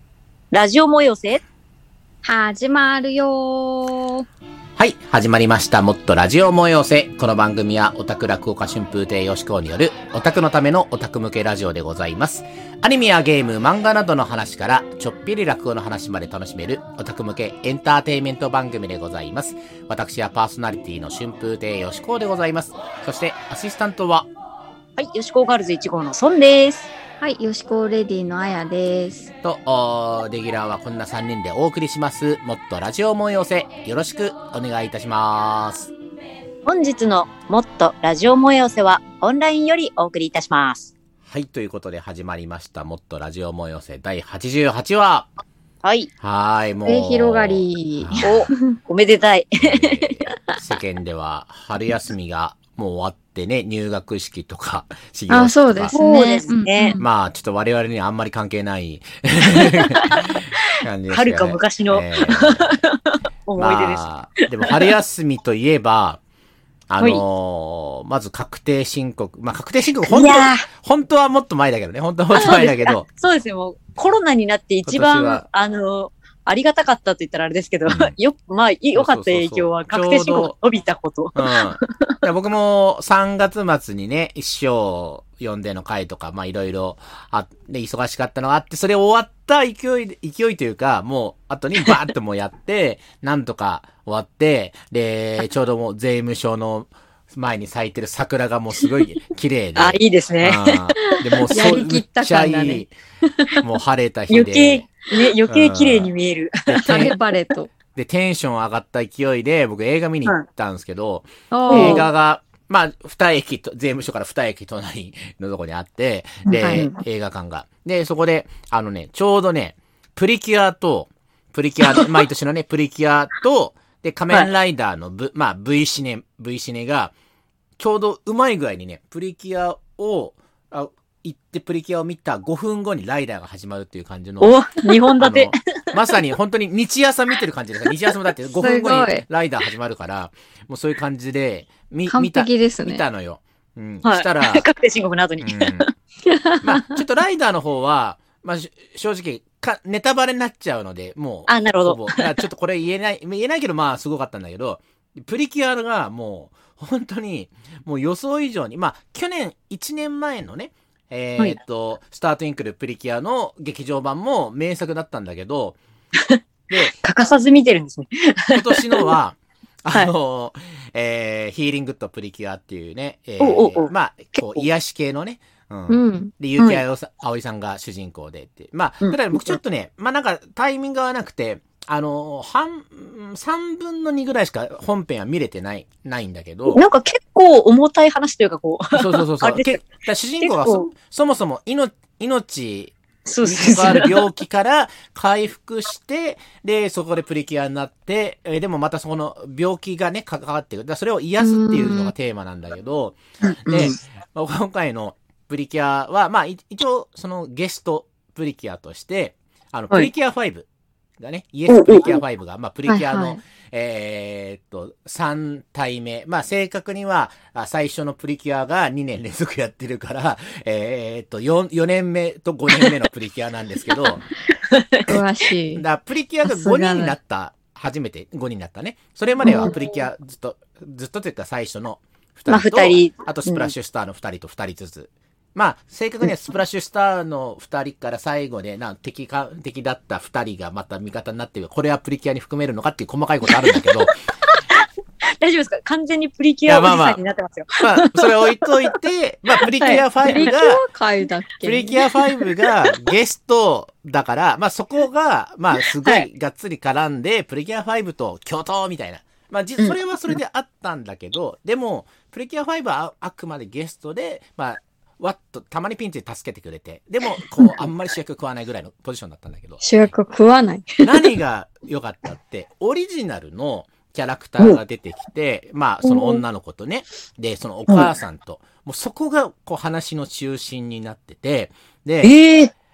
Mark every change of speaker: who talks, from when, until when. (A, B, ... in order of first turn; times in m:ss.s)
0:00.5-0:01.4 A
0:02.2-0:04.2 B
0:04.8-0:24.3 C
0:25.0-0:26.9 A
0:27.2-0:29.3 B
0:29.4-0:35.9 C
0:36.6-0:40.9 A
0:41.2-0:45.3 C
0:45.8-0:46.1 A
0:46.2-0:48.5 C
0:46.8-0:48.7 B
0:48.2-0:50.2 A
0:49.6-0:56.0 C
0:55.3-0:57.0 B
0:55.9-0:57.0 A
0:57.0-1:02.8 C
0:59.9-1:00.2 A
1:01.1-1:04.1 A
1:03.6-1:06.2 C
1:06.9-1:13.0 C
1:10.0-1:10.6 A
1:12.3-1:22.1 A
1:14.8-1:15.4 C
1:17.9-1:18.1 C
1:18.9-1:20.5 C
1:21.3-1:42.9 C
1:39.8-1:40.8 A
1:41.1-1:43.6 B
1:43.6-1:44.9 C
1:44.3-1:47.1 A
1:45.5-1:46.1 C
1:46.7-1:47.1 C
1:46.9-1:47.7 B
1:47.9-2:07.1 C
1:51.5-1:52.1 B
1:51.7-1:52.1 A
1:56.4-1:56.9 A
1:56.5-1:56.9 B
2:07.8-2:24.6 C
2:14.4-2:16.0 A
2:18.5-2:19.2 B
2:22.1-2:23.0 B
2:24.0-2:25.9 A
2:25.4-2:25.9 C
2:26.2-2:26.9 B
2:26.6-2:45.8 C
2:31.5-2:32.4 A
2:46.2-2:49.1 A
2:48.5-3:06.8 C
2:53.4-2:54.6 A
2:55.9-2:56.3 B
2:59.0-2:59.6 A
3:06.7-3:09.8 A
3:08.9-3:30.7 C
3:10.4-3:10.9 A
3:13.2-3:14.2 A
3:21.4-3:22.1 B
3:23.5-3:24.0 A
3:31.2-3:44.2 C
3:31.7-3:32.2 A
3:32.8-3:33.4 B
3:44.7-3:45.2 A
3:45.0-3:45.8 B
3:45.8-4:04.2 C
3:46.4-3:47.2 B
3:49.4-3:49.7 B
3:49.4-3:49.7 A
3:52.5-3:53.7 A
4:05.4-4:08.9 A
4:06.7-4:07.2 C
4:07.8-4:10.8 C
4:09.6-4:10.5 A
4:10.2-4:12.0 B
4:11.6-4:30.1 C
4:15.9-4:16.2 A
4:29.8-4:31.3 B
4:31.0-4:42.3 C
4:36.0-4:36.4 B
4:42.2-4:42.7 A